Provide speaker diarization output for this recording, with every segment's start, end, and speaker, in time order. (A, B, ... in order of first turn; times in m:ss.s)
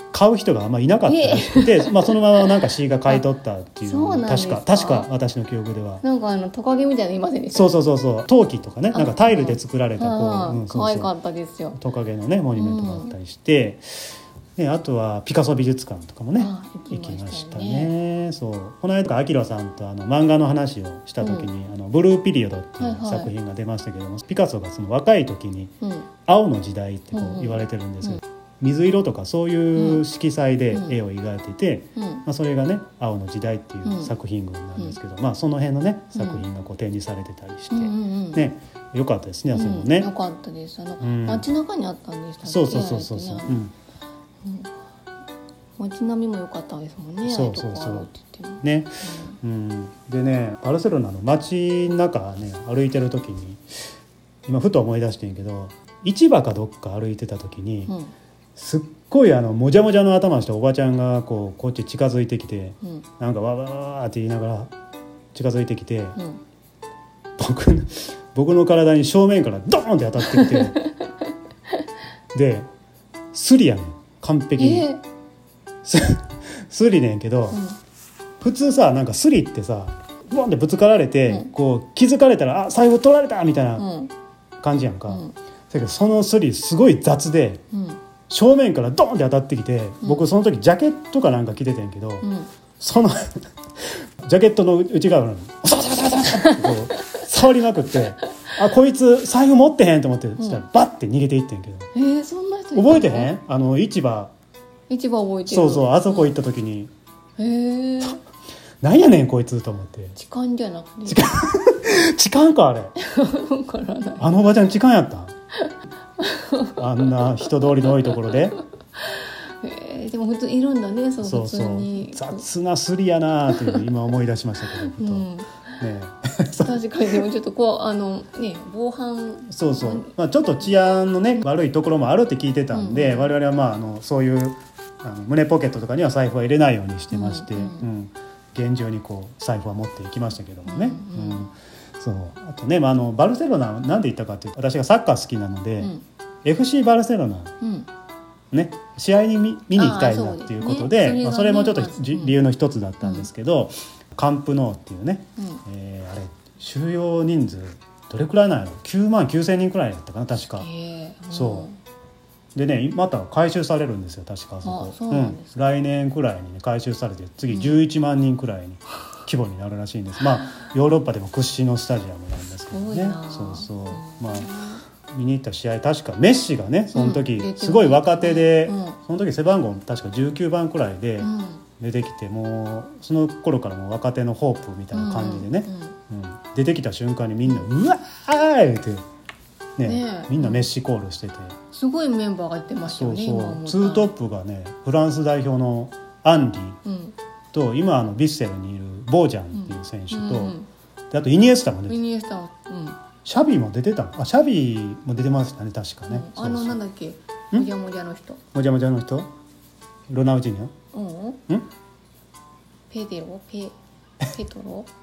0:00.1-0:06.0 A
0:01.1-0:03.2 B
0:03.8-0:05.1 B
0:06.0-0:07.8 B
0:07.5-0:11.1 A
0:08.9-0:11.8 B
0:11.8-0:13.8 A
0:12.6-0:13.2 B
0:14.6-0:25.7 A
0:16.4-0:17.9 B
0:21.2-0:21.5 B
0:22.8-0:23.3 B
0:25.8-0:26.1 B
0:26.2-0:40.1 A
0:27.1-0:28.2 B
0:29.8-0:30.0 B
0:30.7-0:31.0 B
0:32.0-0:32.2 B
0:33.8-0:34.1 B
0:36.2-0:36.4 B
0:37.7-0:38.5 B
0:39.5-0:43.6 B
0:41.0-0:41.5 A
0:42.4-0:43.7 A
0:44.4-0:44.7 B
0:45.8-0:49.4 B
0:47.2-0:48.1 A
0:48.6-0:53.6 A
0:54.5-0:57.9 A
0:57.9-0:58.1 B
0:58.6-1:04.7 A
1:05.3-1:06.2 A
1:06.2-1:06.4 B
1:07.4-1:10.8 A
1:10.2-1:11.1 B
1:12.3-1:12.7 A
1:13.3-1:14.9 A
1:14.6-1:15.0 B
1:15.8-1:17.6 A
1:17.5-1:17.8 B
1:18.4-1:23.9 A
1:21.3-1:21.5 B
1:23.8-1:24.1 B
1:24.6-1:27.6 A
1:25.1-1:25.4 B
1:27.7-1:28.0 B
1:28.3-1:33.4 A
1:32.2-1:32.5 B
1:34.2-1:41.9 A
1:36.4-1:36.8 B
1:41.9-1:43.3 B
1:42.8-1:44.3 A
1:44.9-1:46.3 B
1:45.5-1:46.9 A
1:47.4-1:48.2 B
1:48.8-1:50.2 A
1:50.2-1:51.3 B
1:51.1-1:53.0 A
1:53.0-1:54.3 B
1:54.2-1:55.3 A
1:55.6-2:02.5 B
1:56.8-1:58.6 A
2:01.2-2:05.3 A
2:03.5-2:03.9 B
2:04.7-2:05.5 B
2:05.8-2:06.8 A
2:06.6-2:10.1 B
2:09.5-2:25.9 A
2:12.7-2:13.3 B
2:17.1-2:17.9 B
2:20.7-2:21.5 B
2:26.4-2:27.5 A
2:27.6-2:27.9 B
2:28.5-2:40.7 A
2:29.8-2:32.4 B
2:33.0-2:33.3 B
2:40.4-2:41.8 B
2:41.3-2:41.7 A
2:42.6-2:54.5 A
2:44.6-2:45.6 B
2:47.5-2:47.8 B
2:52.7-2:54.8 B
2:55.1-3:09.0 A
2:56.9-2:59.0 B
3:01.2-3:01.6 B
3:04.9-3:06.0 B
3:09.8-3:11.6 A
3:09.8-3:10.7 B
3:11.7-3:14.1 B
3:12.9-3:16.8 A
3:16.8-3:17.2 B
3:17.5-3:20.6 A
3:19.5-3:20.7 B
3:21.1-3:22.0 A
3:21.9-3:23.0 B
3:23.2-3:26.8 A
3:26.1-3:28.4 B
3:28.5-3:29.3 A
3:30.1-3:30.8 A
3:30.9-3:31.4 B
3:32.9-3:34.9 B